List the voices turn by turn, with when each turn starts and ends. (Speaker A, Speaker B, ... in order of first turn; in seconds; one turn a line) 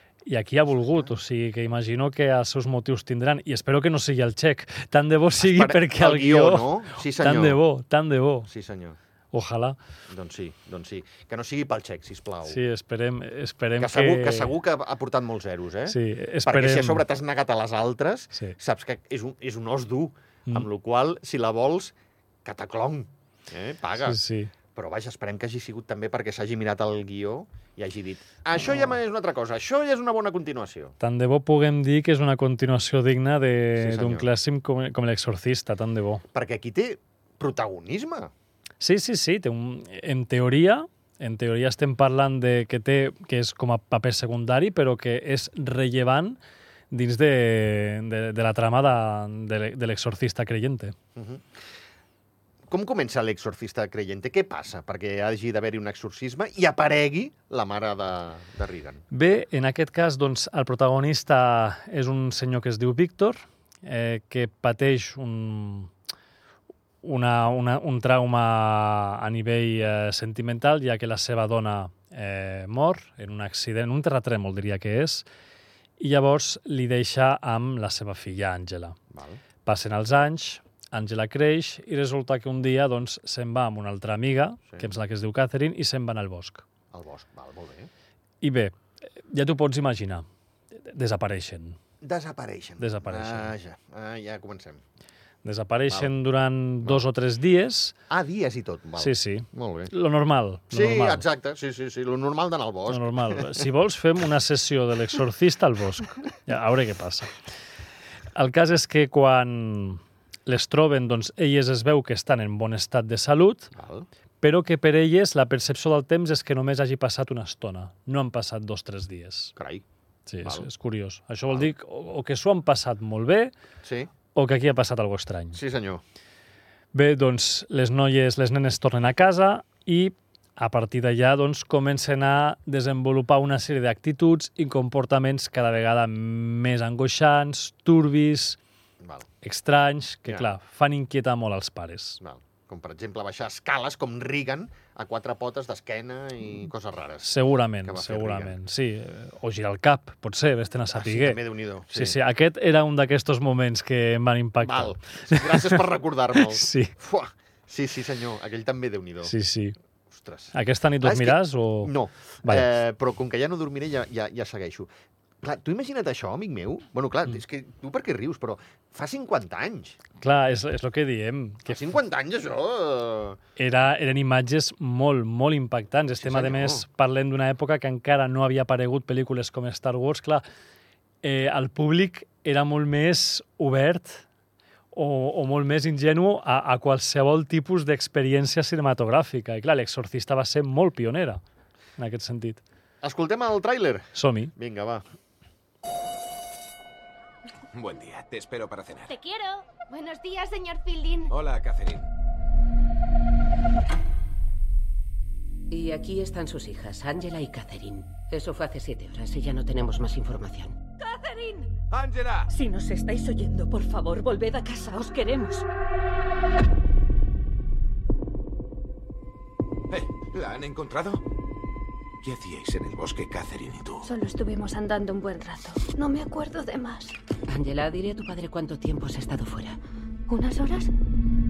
Speaker A: 0.2-8.5
Speaker B: 5.4-7.6
Speaker B: 8.5-9.0
Speaker A: 9.3-9.8
Speaker B: 10.1-12.6
Speaker A: 12.4-14.5
Speaker B: 13.8-21.9
Speaker A: 15.9-17.0
Speaker B: 22.4-24.2
Speaker A: 24.0-24.5
Speaker B: 24.7-30.9
Speaker A: 31.0-36.2
Speaker B: 33.8-34.2
Speaker B: 36.3-38.3
Speaker A: 38.8-46.4
Speaker A: 46.9-50.9
Speaker B: 51.1-51.6
Speaker B: 52.7-59.0
Speaker A: 59.1-65.9
Speaker A: 67.0-75.2
Speaker A: 76.0-79.0
Speaker B: 79.1-79.4
Speaker A: 79.6-86.6
Speaker B: 86.9-87.9
Speaker A: 88.4-90.2
Speaker A: 90.8-91.8
Speaker B: 92.0-94.8
Speaker A: 92.8-93.5
Speaker A: 95.4-98.0
Speaker B: 95.9-96.1
Speaker B: 98.1-99.9
Speaker A: 99.0-101.2
Speaker B: 100.7-103.6
Speaker A: 102.9-107.3
Speaker A: 108.3-113.7
Speaker B: 113.7-114.1
Speaker A: 114.4-119.5
Speaker B: 119.5-119.8
Speaker A: 120.3-123.5
Speaker B: 123.8-124.1
Speaker A: 124.3-125.6
Speaker B: 125.5-126.0
Speaker A: 126.9-138.6
Speaker B: 139.0-139.3
Speaker A: 139.4-142.2
Speaker B: 142.2-148.5
Speaker A: 147.2-156.9
Speaker B: 150.9-152.2
Speaker B: 154.6-159.3
Speaker A: 159.2-159.8
Speaker B: 160.1-164.9
Speaker A: 160.5-161.9
Speaker A: 162.4-162.7
Speaker B: 165.4-170.0
Speaker A: 170.2-171.8
Speaker B: 171.7-173.4
Speaker A: 173.6-180.4
Speaker B: 176.2-176.8
Speaker A: 181.2-184.2
Speaker A: 184.9-191.4
Speaker A: 192.0-192.6
Speaker B: 193.0-195.0
Speaker A: 194.1-194.5
Speaker C: 197.7-199.2
Speaker D: 199.1-201.3
Speaker C: 201.3-202.1
Speaker E: 205.7-210.8
Speaker D: 211.1-211.6
Speaker C: 211.9-212.5
Speaker F: 212.5-215.7
Speaker C: 219.9-221.2
Speaker C: 222.2-224.1
Speaker D: 224.0-227.1
Speaker E: 227.5-229.8
Speaker D: 230.3-230.9